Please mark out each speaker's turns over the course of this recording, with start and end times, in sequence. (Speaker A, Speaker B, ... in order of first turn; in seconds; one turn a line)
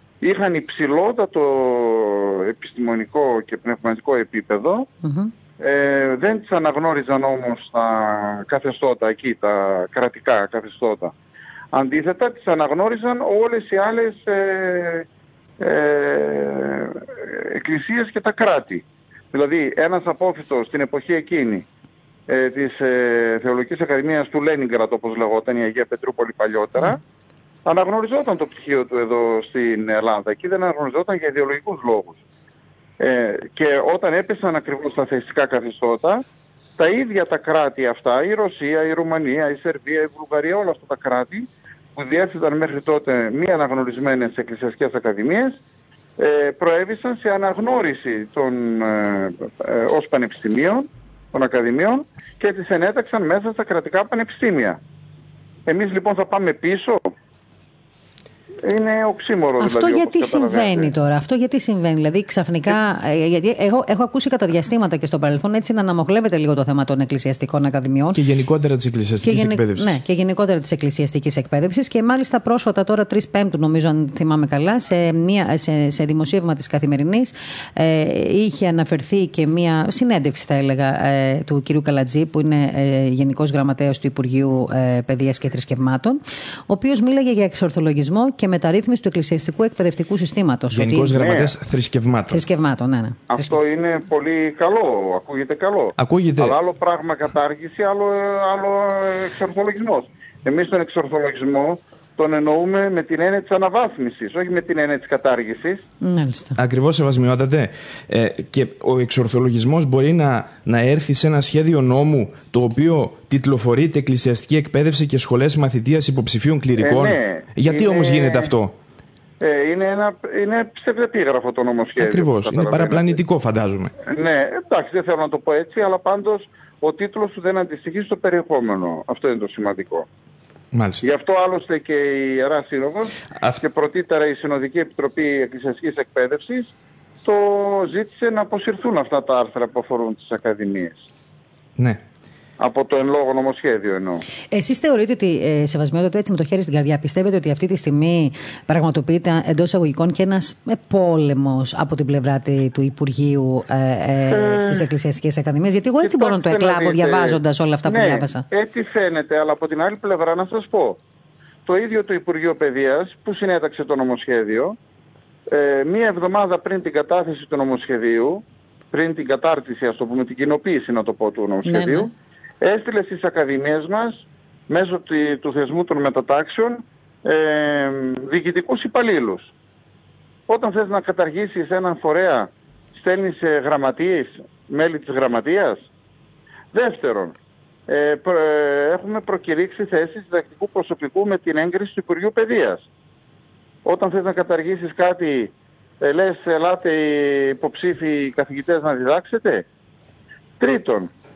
Speaker A: 0.2-4.9
Speaker B: 5.0-5.3
Speaker A: 5.6-11.1
Speaker A: 11.7-15.1
Speaker A: 15.6-21.6
Speaker A: 22.3-27.0
Speaker A: 27.6-32.2
Speaker A: 33.0-36.2
Speaker A: 36.8-45.5
Speaker A: 46.2-54.8
Speaker A: 55.7-57.1
Speaker A: 58.6-60.9
Speaker B: 59.6-68.2
Speaker C: 68.1-69.9
Speaker B: 69.2-91.2
Speaker C: 90.7-92.4
Speaker A: 91.2-91.5
Speaker B: 92.3-93.5
Speaker A: 93.3-105.8
Speaker C: 96.0-96.6
Speaker B: 106.0-106.6
Speaker C: 106.6-118.8
Speaker A: 116.8-118.5
Speaker A: 119.4-123.2
Speaker C: 122.0-123.9
Speaker A: 124.0-130.1
Speaker C: 130.7-131.0
Speaker A: 131.0-136.7
Speaker C: 133.3-133.6
Speaker A: 137.2-141.0
Speaker A: 142.6-144.2
Speaker B: 144.5-158.4
Speaker A: 154.3-154.8
Speaker A: 156.0-161.0
Speaker A: 161.7-164.8
Speaker A: 165.5-179.5
Speaker B: 171.7-172.1
Speaker A: 180.5-185.8
Speaker A: 186.7-187.3
Speaker A: 187.9-192.8
Speaker A: 193.8-199.7
Speaker A: 200.6-201.1